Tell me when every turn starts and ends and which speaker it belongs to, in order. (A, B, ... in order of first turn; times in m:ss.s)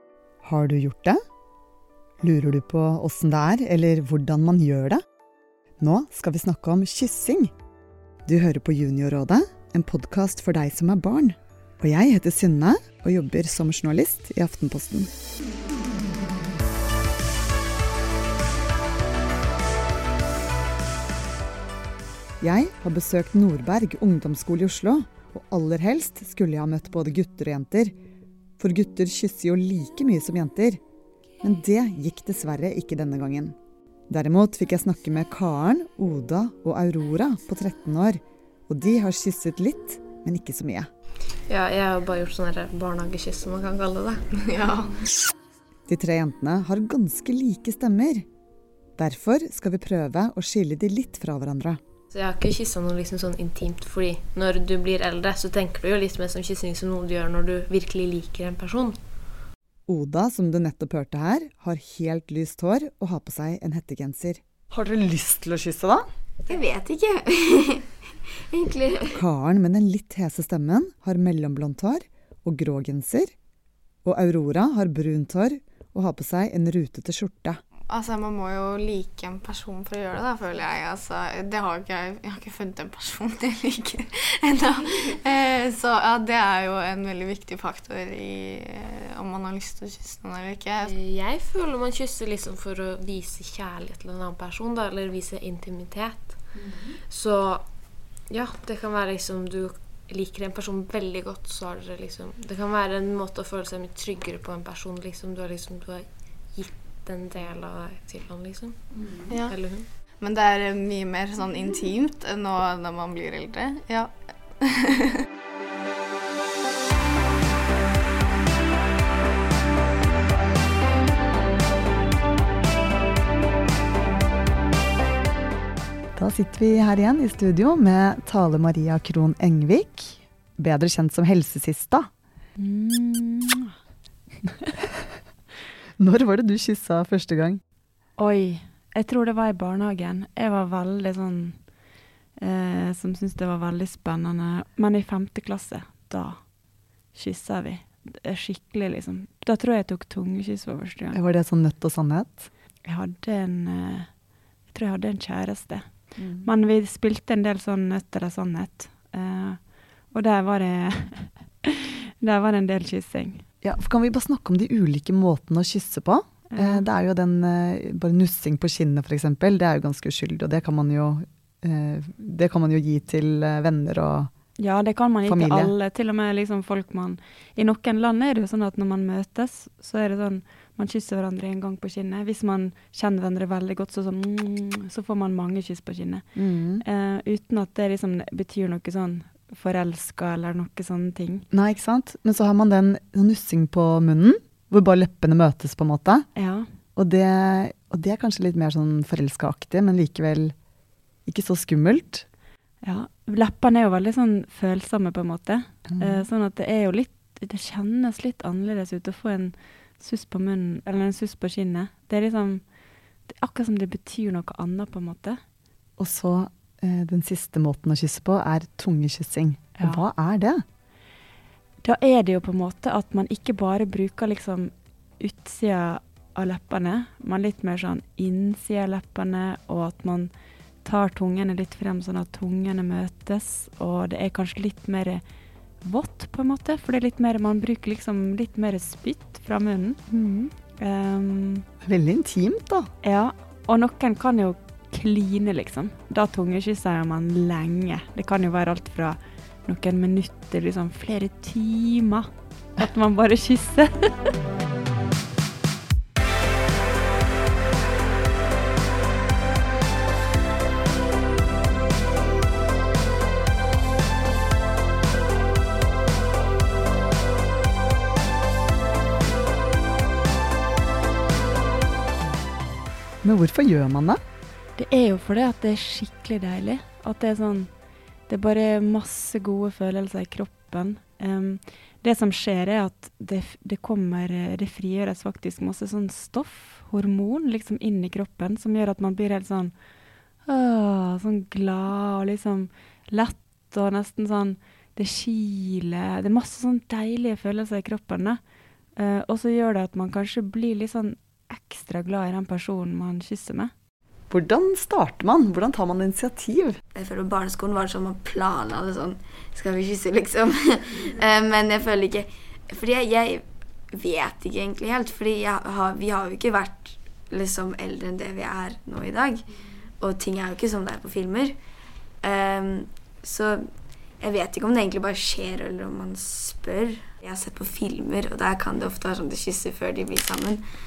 0:00.4-0:01.2 A
0:02.2-0:05.0 A
0:05.8-0:07.5 A
0:08.3-0:15.1 A
0:22.4-0:28.0 A
0:28.6-0:30.8 A
0:31.4-0:33.6 A
0:34.1-0:40.9 A
0:41.5-0:44.4 B
0:44.5-0:45.0 C
0:45.9-0:48.3 A
0:49.0-0:51.8 A
0:52.1-0:59.0 B
0:59.9-1:06.0 A
1:06.4-1:09.2 D
1:09.1-1:13.3 A
1:14.0-1:17.6 A
1:17.9-1:30.9 C
1:30.8-1:37.7 B
1:38.3-1:49.9 B
1:49.3-1:49.6 C
1:50.2-1:55.1 C
2:06.2-2:12.1 A
2:12.6-2:13.7 E
2:14.4-2:14.7 E
2:16.0-2:17.6 A
2:18.2-2:21.6 E
2:22.4-2:26.4 E
2:27.1-2:31.2 E
2:31.1-2:32.5 A
2:32.8-2:34.1 E
2:34.7-2:35.9 E
2:36.2-2:36.5 A
2:36.4-2:43.4 E
2:43.6-2:54.3 A
2:46.5-2:46.8 E
2:54.6-3:06.3 E
2:55.2-2:55.7 A
3:06.4-3:06.8 A
3:06.8-3:11.5 E
3:11.5-3:16.3 A
3:16.4-3:16.7 E
3:17.0-3:20.6 A
3:21.3-3:22.2 A
3:22.8-3:32.6 E
3:25.9-3:26.2 A
3:33.3-3:35.4 E
3:36.0-3:40.6 A
3:39.8-3:40.0 E
3:41.8-3:50.3 E
3:50.8-3:55.2 E
3:55.8-4:00.0 E
4:00.1-4:00.5 A
4:00.8-4:01.7 E
4:01.8-4:02.9 A
4:03.0-4:14.3 E
4:33.2-4:34.2 A
4:34.8-4:37.7 E
4:38.3-4:49.7 E
4:50.4-4:58.4 E
4:59.0-5:03.7 E
5:04.3-5:06.8 A
5:06.9-5:19.4 D
5:20.0-5:21.6 D
5:22.2-5:30.6 D